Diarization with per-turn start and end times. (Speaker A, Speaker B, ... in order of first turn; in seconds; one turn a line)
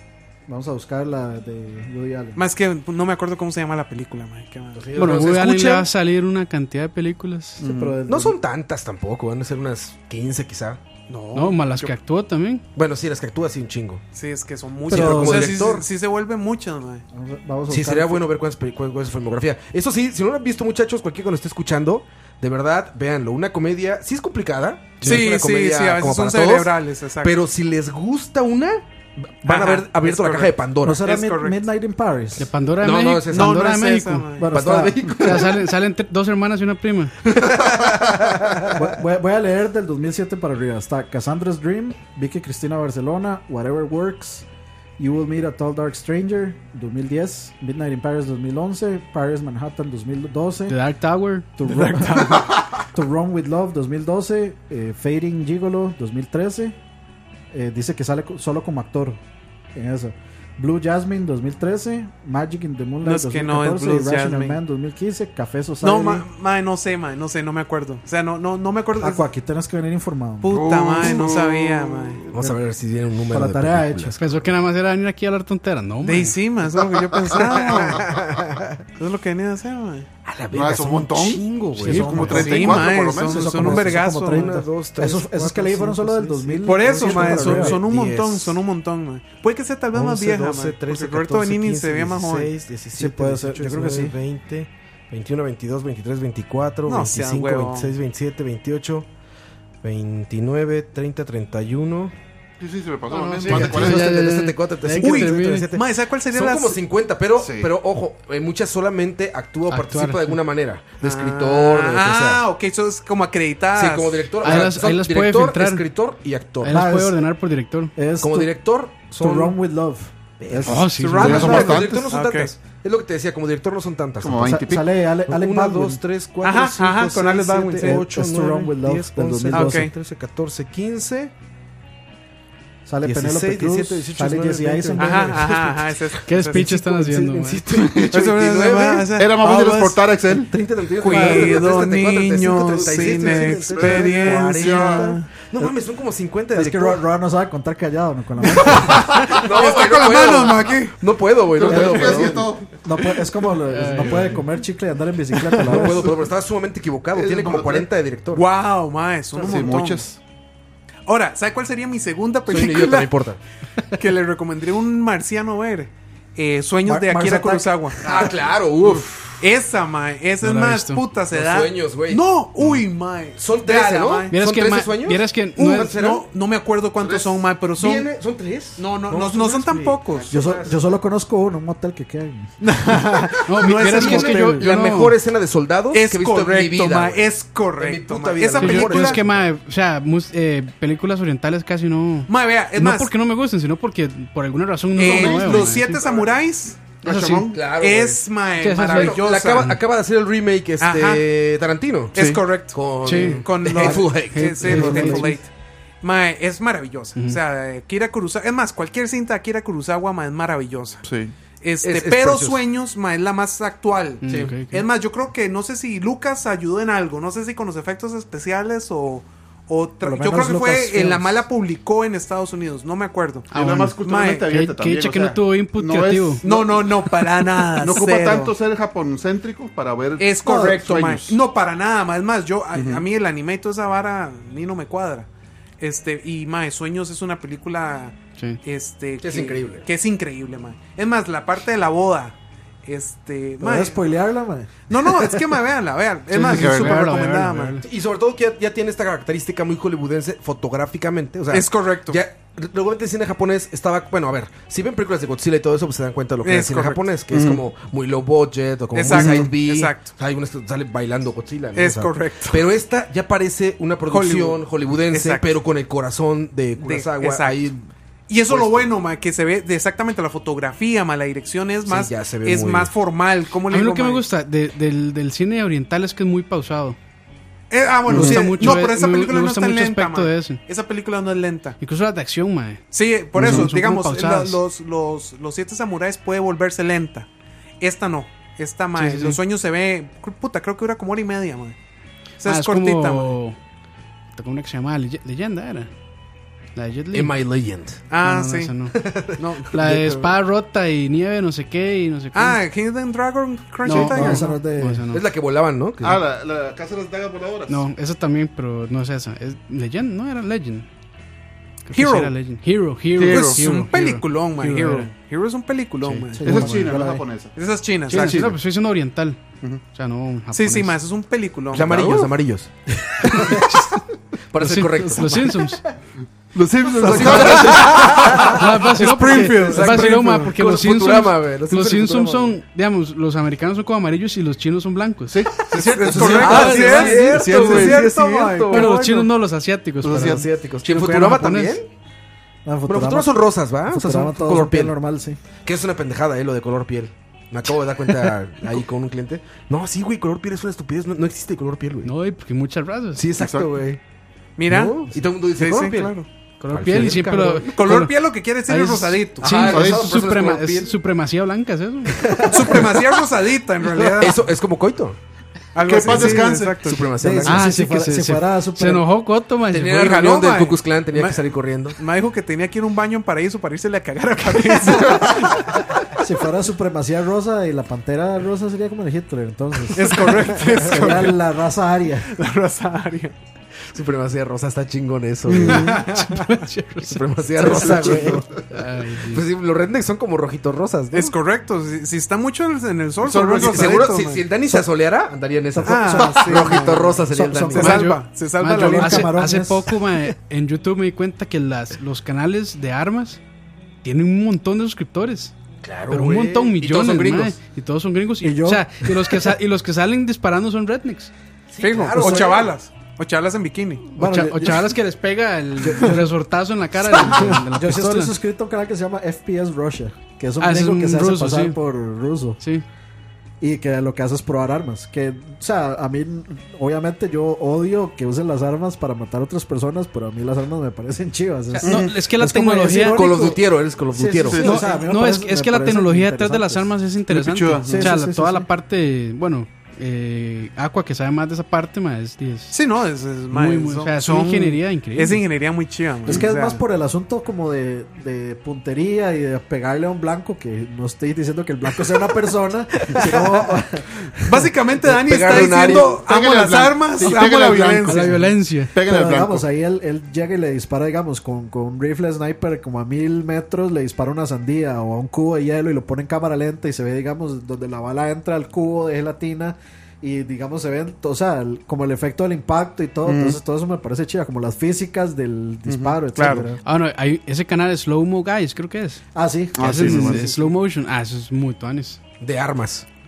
Speaker A: 0.5-2.4
Speaker B: 2.4-4.9
Speaker C: 4.8-5.9
Speaker D: 5.0-7.6
Speaker A: 7.6-8.4
Speaker E: 7.6-8.0
Speaker C: 8.1-10.8
Speaker B: 11.1-11.9
Speaker D: 11.3-12.6
Speaker C: 12.8-14.0
Speaker B: 14.1-17.1
Speaker C: 14.9-15.9
Speaker A: 14.9-15.6
Speaker A: 17.1-18.2
Speaker C: 17.7-31.1
Speaker B: 25.0-27.4
Speaker B: 29.4-31.6
Speaker A: 30.8-32.5
Speaker D: 32.4-34.3
Speaker C: 32.8-33.7
Speaker B: 33.3-34.5
Speaker A: 34.4-35.2
Speaker C: 34.5-35.7
Speaker D: 35.2-37.1
Speaker C: 37.2-39.0
Speaker A: 38.7-44.5
Speaker A: 45.0-50.8
Speaker D: 50.7-51.5
Speaker A: 51.6-56.8
Speaker B: 51.7-52.6
Speaker A: 57.5-59.2
Speaker A: 59.8-66.2
Speaker B: 63.0-64.6
Speaker B: 65.8-69.3
Speaker A: 69.0-70.7
Speaker B: 70.4-72.2
Speaker E: 70.5-72.3
Speaker C: 72.3-74.2
Speaker A: 73.3-74.2
Speaker D: 74.2-76.4
Speaker B: 76.0-78.1
Speaker C: 77.3-78.8
Speaker B: 79.0-80.1
Speaker C: 80.2-82.6
Speaker E: 80.5-83.6
Speaker A: 81.8-87.8
Speaker D: 81.9-82.5
Speaker B: 82.3-84.5
Speaker C: 83.6-88.6
Speaker B: 86.7-92.5
Speaker C: 89.9-99.1
Speaker A: 92.9-94.2
Speaker B: 96.9-97.9
Speaker C: 99.8-102.1
Speaker E: 102.6-104.1
Speaker D: 103.2-105.7
Speaker C: 103.4-112.5
Speaker B: 105.0-106.8
Speaker E: 107.4-107.7
Speaker D: 109.7-110.4
Speaker B: 111.0-114.4
Speaker C: 113.7-116.8
Speaker D: 114.4-115.8
Speaker D: 116.6-117.9
Speaker A: 116.7-117.2
Speaker A: 118.0-121.0
Speaker C: 118.2-119.6
Speaker C: 120.4-124.7
Speaker D: 120.7-121.7
Speaker B: 121.0-122.5
Speaker E: 121.2-122.1
Speaker E: 124.2-124.9
Speaker A: 124.5-126.0
Speaker C: 125.3-131.3
Speaker B: 126.4-128.0
Speaker A: 127.8-129.9
Speaker B: 129.5-129.9
Speaker A: 132.9-135.5
Speaker C: 133.0-139.1
Speaker B: 134.9-136.8
Speaker D: 136.3-137.7
Speaker B: 138.1-140.1
Speaker E: 139.2-140.5
Speaker C: 140.4-147.0
Speaker B: 141.0-145.3
Speaker E: 141.1-141.6
Speaker E: 142.8-145.1
Speaker A: 146.5-149.1
Speaker B: 148.5-151.0
Speaker C: 148.7-152.5
Speaker E: 151.5-152.7
Speaker A: 151.7-156.1
Speaker D: 153.7-154.4
Speaker C: 155.7-158.4
Speaker E: 157.2-157.9
Speaker B: 158.3-160.1
Speaker E: 159.3-160.2
Speaker B: 161.1-163.1
Speaker C: 162.5-163.4
Speaker B: 163.9-168.1
Speaker A: 166.8-167.7
Speaker C: 168.0-169.4
Speaker B: 169.4-174.3
Speaker D: 170.4-171.0
Speaker C: 171.3-172.8
Speaker C: 173.4-176.3
Speaker D: 174.3-175.9
Speaker B: 175.6-178.1
Speaker E: 177.0-177.5
Speaker C: 177.8-180.8
Speaker B: 178.8-180.3
Speaker A: 180.3-182.5
Speaker B: 182.6-184.7
Speaker D: 183.5-185.2
Speaker C: 183.6-189.5
Speaker B: 185.9-189.2
Speaker D: 188.6-196.0
Speaker B: 192.3-193.1
Speaker B: 195.0-199.8
Speaker E: 195.1-196.4
Speaker D: 197.0-197.5
Speaker C: 197.4-198.3
Speaker D: 198.6-199.2
Speaker C: 198.9-202.2
Speaker B: 200.8-201.2
Speaker B: 202.2-205.5
Speaker E: 202.2-202.4
Speaker C: 202.7-205.3
Speaker D: 203.0-205.3
Speaker A: 204.7-205.4
Speaker B: 206.0-211.0
Speaker E: 211.0-211.3
Speaker B: 211.6-224.5
Speaker C: 211.8-212.6
Speaker D: 214.2-214.8
Speaker C: 214.3-214.5
Speaker A: 220.0-221.4
Speaker D: 223.5-226.4
Speaker E: 223.5-231.3
Speaker B: 226.4-228.5
Speaker B: 230.2-235.3
Speaker A: 230.5-230.9
Speaker E: 232.7-233.1
Speaker B: 235.8-242.3
Speaker C: 239.2-239.9
Speaker B: 242.9-244.0
Speaker A: 243.6-245.3
Speaker B: 244.9-247.8
Speaker D: 246.3-247.8
Speaker E: 246.5-247.0
Speaker C: 247.8-267.9
Speaker B: 251.5-252.2
Speaker B: 256.4-257.0
Speaker E: 257.3-257.6
Speaker B: 258.9-260.1
Speaker E: 259.1-259.5
Speaker B: 261.8-262.6
Speaker B: 264.1-265.5
Speaker B: 266.8-267.7
Speaker B: 268.3-274.3
Speaker C: 268.5-268.9
Speaker C: 271.9-272.9
Speaker D: 273.7-277.0
Speaker B: 277.7-281.8
Speaker D: 278.1-280.6
Speaker E: 278.1-278.4
Speaker D: 281.8-284.6
Speaker B: 282.9-287.3
Speaker E: 283.4-283.7
Speaker B: 287.8-291.8
Speaker D: 289.0-289.4
Speaker B: 292.4-293.4
Speaker D: 292.4-293.6
Speaker D: 294.4-295.9
Speaker D: 296.8-297.3
Speaker C: 297.1-298.0
Speaker B: 298.1-298.7
Speaker D: 298.2-299.0
Speaker C: 298.9-300.3
Speaker B: 299.4-299.8
Speaker D: 299.7-302.6
Speaker B: 302.3-304.5
Speaker D: 303.9-305.2
Speaker A: 303.9-305.1
Speaker C: 305.1-306.2
Speaker E: 306.0-307.9
Speaker D: 307.7-310.9
Speaker D: 311.9-315.1
Speaker B: 311.9-312.3
Speaker B: 313.2-316.8
Speaker E: 313.2-313.6
Speaker D: 316.0-316.3
Speaker A: 316.4-317.2
Speaker E: 316.4-317.5
Speaker B: 317.6-318.5
Speaker D: 318.1-319.4
Speaker D: 319.9-321.0
Speaker B: 320.5-322.3
Speaker C: 321.7-323.8
Speaker C: 324.5-325.5
Speaker D: 324.6-325.8
Speaker E: 326.5-328.3
Speaker C: 327.0-332.6
Speaker B: 327.3-328.0
Speaker D: 328.3-337.6
Speaker B: 329.0-330.2
Speaker E: 335.3-338.1
Speaker B: 335.7-338.9
Speaker C: 336.0-339.3
Speaker D: 338.7-341.8
Speaker A: 338.9-339.1
Speaker E: 340.0-340.5
Speaker C: 340.1-341.9
Speaker A: 342.6-345.4
Speaker C: 342.9-345.0
Speaker C: 345.6-352.1
Speaker D: 352.0-353.2
Speaker C: 353.2-354.0
Speaker E: 353.4-353.7
Speaker B: 354.6-355.0
Speaker C: 354.7-356.2
Speaker B: 355.6-356.3
Speaker D: 356.6-358.2
Speaker C: 356.7-357.6
Speaker B: 357.6-359.4
Speaker D: 358.7-362.3
Speaker C: 359.4-360.9
Speaker E: 359.6-360.2
Speaker C: 362.2-363.0
Speaker B: 362.5-364.4
Speaker C: 364.0-365.2
Speaker B: 365.8-367.1
Speaker E: 365.8-366.8
Speaker C: 366.0-367.7
Speaker A: 367.2-369.1
Speaker D: 367.4-370.2
Speaker C: 369.7-372.0
Speaker B: 370.0-375.9
Speaker A: 376.2-382.3
Speaker B: 379.9-381.4
Speaker B: 382.3-383.4
Speaker C: 383.9-386.1
Speaker E: 385.5-385.9
Speaker B: 385.6-386.3
Speaker D: 385.8-387.2
Speaker C: 387.0-388.5
Speaker E: 387.7-388.4
Speaker A: 387.7-388.4
Speaker D: 388.7-389.4
Speaker C: 389.3-391.4
Speaker B: 391.1-394.5
Speaker E: 393.3-394.0
Speaker C: 393.6-398.1
Speaker A: 395.7-398.1
Speaker B: 395.9-397.2
Speaker B: 397.7-399.3
Speaker D: 397.8-403.4
Speaker A: 398.6-400.0
Speaker D: 404.0-405.5
Speaker C: 405.8-407.6
Speaker D: 406.1-411.3
Speaker A: 408.4-408.9
Speaker C: 411.7-412.7
Speaker B: 411.8-414.1
Speaker A: 412.1-412.7
Speaker A: 414.1-415.0
Speaker D: 414.2-418.3
Speaker A: 415.8-416.2
Speaker A: 417.3-422.6
Speaker D: 420.6-421.8
Speaker D: 422.6-422.9
Speaker A: 423.6-436.9
Speaker D: 431.8-433.3
Speaker E: 431.9-432.2
Speaker C: 432.9-434.8
Speaker E: 434.5-434.9
Speaker D: 434.6-442.8
Speaker E: 437.3-438.1
Speaker A: 437.8-438.7
Speaker B: 442.7-446.8
Speaker D: 443.5-445.4
Speaker A: 446.3-454.3
Speaker B: 454.5-458.4
Speaker C: 455.0-456.2
Speaker E: 455.5-459.7
Speaker D: 458.1-458.9
Speaker A: 459.0-476.8
Speaker E: 473.2-473.6
Speaker E: 475.9-476.2
Speaker B: 476.4-476.7
Speaker D: 476.8-479.2
Speaker A: 479.4-480.5
Speaker E: 479.8-480.7
Speaker D: 479.8-482.2
Speaker C: 482.4-483.1